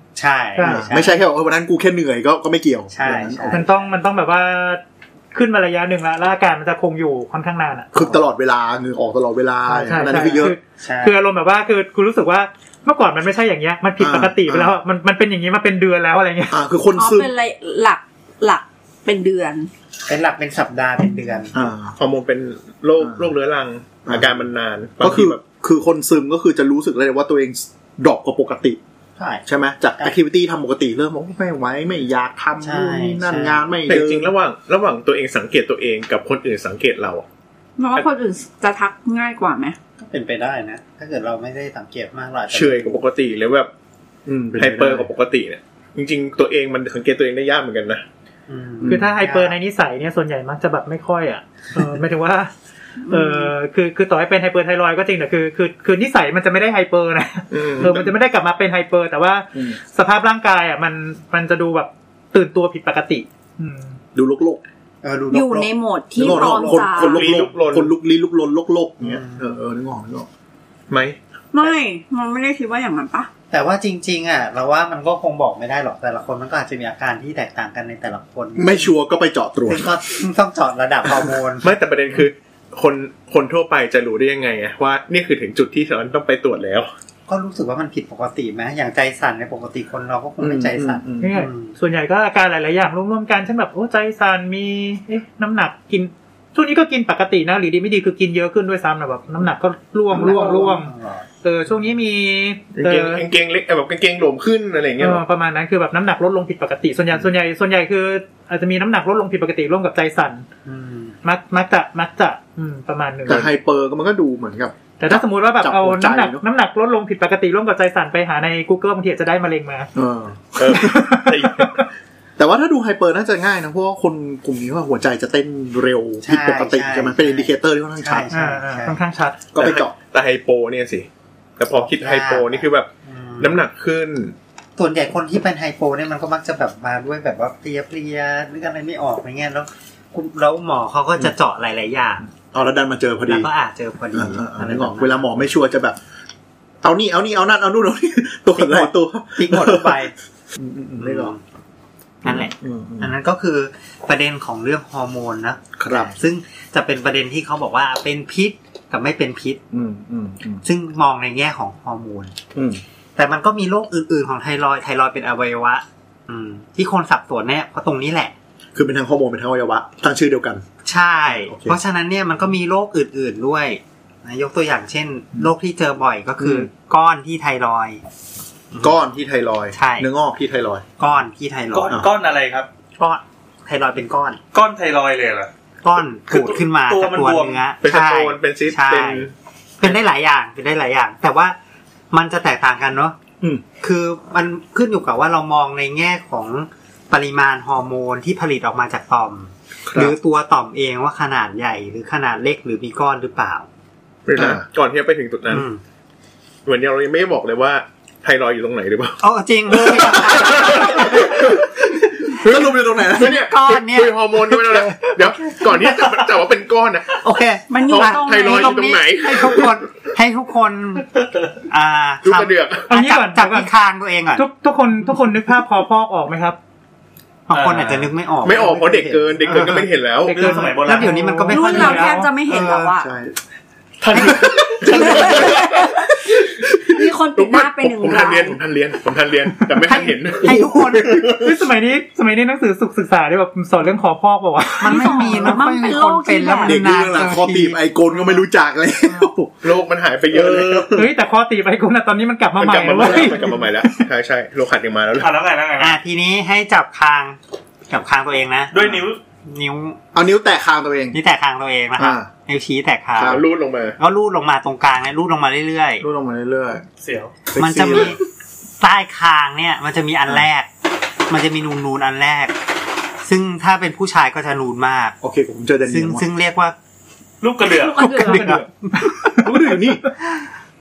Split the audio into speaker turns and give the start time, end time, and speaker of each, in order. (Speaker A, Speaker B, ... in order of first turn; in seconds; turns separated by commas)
Speaker A: 0.2-1.2, Speaker B: 0.6-0.8, Speaker C: 0.6-3.6, Speaker A: 2.9-3.9, Speaker B: 3.5-4.8, Speaker B: 5.3-7.9, Speaker C: 7.9-10.6, Speaker B: 9.7-16.6, Speaker A: 10.0-11.2, Speaker C: 14.0-14.8, Speaker C: 16.5-17.3, Speaker D: 16.9-19.7, Speaker A: 20.1-21.7, Speaker C: 21.5-21.9, Speaker E: 22.0-25.4, Speaker C: 23.0-23.3, Speaker C: 25.0-28.8, Speaker A: 29.2-29.4, Speaker C: 29.4-34.3, Speaker A: 32.6-33.8, Speaker E: 33.9-37.2, Speaker D: 37.8-39.8, Speaker A: 40.0-43.0, Speaker E: 42.5-43.7, Speaker C: 44.3-45.1, Speaker E: 44.6-48.0, Speaker A: 48.5-49.5, Speaker C: 48.8-49.1, Speaker B: 48.9-52.5, Speaker D: 53.0-53.5, Speaker B: 53.1-64.0, Speaker E: 57.5-58.1, Speaker C: 64.2-64.6, Speaker A: 65.0-66.8, Speaker D: 65.3-67.2, Speaker C: 66.2-70.3, Speaker E: 67.0-67.9, Speaker F: 67.2-67.5, Speaker A: 69.0-69.5, Speaker E: 70.9-71.2, Speaker D: 71.5-73.3, Speaker A: 73.5-78.9, Speaker C: 78.6-79.9, Speaker A: 79.7-81.8, Speaker E: 81.6-86.9, Speaker A: 87.3-91.7, Speaker C: 90.4-91.3, Speaker B: 91.2-103.2, Speaker A: 100.1-101.3, Speaker C: 100.2-100.6, Speaker E: 102.8-105.2, Speaker B: 105.0-110.5, Speaker A: 110.7-111.2, Speaker B: 111.2-113.5, Speaker C: 113.3-116.4, Speaker B: 115.0-119.9, Speaker C: 120.0-120.8, Speaker E: 120.6-121.8, Speaker B: 120.6-121.8, Speaker C: 122.4-128.3, Speaker A: 126.2-129.0, Speaker B: 128.3-129.4, Speaker C: 129.6-129.9, Speaker E: 129.6-131.1, Speaker E: 131.6-134.3, Speaker A: 131.7-133.6, Speaker A: 134.8-142.3, Speaker C: 142.5-143.5, Speaker A: 143.3-145.5, Speaker C: 144.1-146.0, Speaker C: 146.8-151.3, Speaker A: 148.6-150.1, Speaker A: 151.0-151.4, Speaker A: 152.2-159.6, Speaker C: 152.2-153.1, Speaker C: 155.8-156.1, Speaker C: 159.7-160.6, Speaker A: 160.6-162.3, Speaker C: 162.6-162.8, Speaker A: 163.2-168.3, Speaker C: 168.8-170.6, Speaker A: 170.8-178.0, Speaker C: 171.3-171.8, Speaker C: 176.4-176.7, Speaker A: 178.7-179.0, Speaker C: 178.8-180.8, Speaker A: 179.8-180.1, Speaker A: 181.0-182.0, Speaker F: 181.7-182.7, Speaker A: 183.0-184.4, Speaker F: 184.5-185.5, Speaker A: 185.8-189.2, Speaker F: 186.3-187.6, Speaker E: 187.8-189.3, Speaker A: 189.8-191.6, Speaker A: 192.1-193.2, Speaker A: 193.8-203.7, Speaker C: 199.9-200.2, Speaker E: 204.3-205.7, Speaker C: 204.3-204.7, Speaker A: 205.5-205.8, Speaker E: 206.7-211.7, Speaker A: 209.2-211.7, Speaker C: 209.8-211.5, Speaker C: 212.3-213.4, Speaker A: 212.3-216.1, Speaker E: 213.2-217.2, Speaker A: 217.2-221.1, Speaker D: 217.7-219.0, Speaker E: 217.8-219.8, Speaker A: 221.7-224.4, Speaker E: 222.2-222.9, Speaker B: 222.9-223.7, Speaker B: 224.3-226.6, Speaker A: 227.5-229.9, Speaker F: 227.5-228.1, Speaker E: 228.4-230.5, Speaker B: 230.2-232.3, Speaker F: 230.3-231.4, Speaker A: 230.4-232.9, Speaker D: 231.5-233.1, Speaker C: 233.0-233.3, Speaker E: 234.1-236.0, Speaker A: 234.1-235.1, Speaker C: 234.1-235.6, Speaker D: 234.9-236.2, Speaker E: 236.7-241.6, Speaker D: 236.9-238.6, Speaker A: 239.8-241.3, Speaker C: 240.5-241.0, Speaker B: 241.4-245.6, Speaker A: 244.8-248.4, Speaker D: 244.8-246.8, Speaker C: 246.6-249.8, Speaker E: 249.6-251.1, Speaker C: 250.3-250.9, Speaker B: 250.9-253.7, Speaker E: 252.6-255.3, Speaker F: 255.2-256.0, Speaker A: 255.8-257.4, Speaker A: 257.9-260.0, Speaker F: 258.7-259.2, Speaker C: 260.1-261.2, Speaker A: 261.1-263.5, Speaker C: 262.0-262.3, Speaker C: 263.2-263.4, Speaker E: 263.2-264.0, Speaker A: 264.0-266.0, Speaker C: 266.0-266.8, Speaker F: 267.0-267.3, Speaker C: 267.5-268.2, Speaker A: 267.6-268.2, Speaker A: 268.8-270.7, Speaker A: 271.3-272.6, Speaker A: 273.2-275.2, Speaker C: 275.2-276.3, Speaker A: 275.9-276.8, Speaker F: 277.4-278.1, Speaker D: 277.8-278.5, Speaker A: 277.9-279.4, Speaker B: 278.0-279.6, Speaker C: 279.4-280.0, Speaker A: 280.2-280.5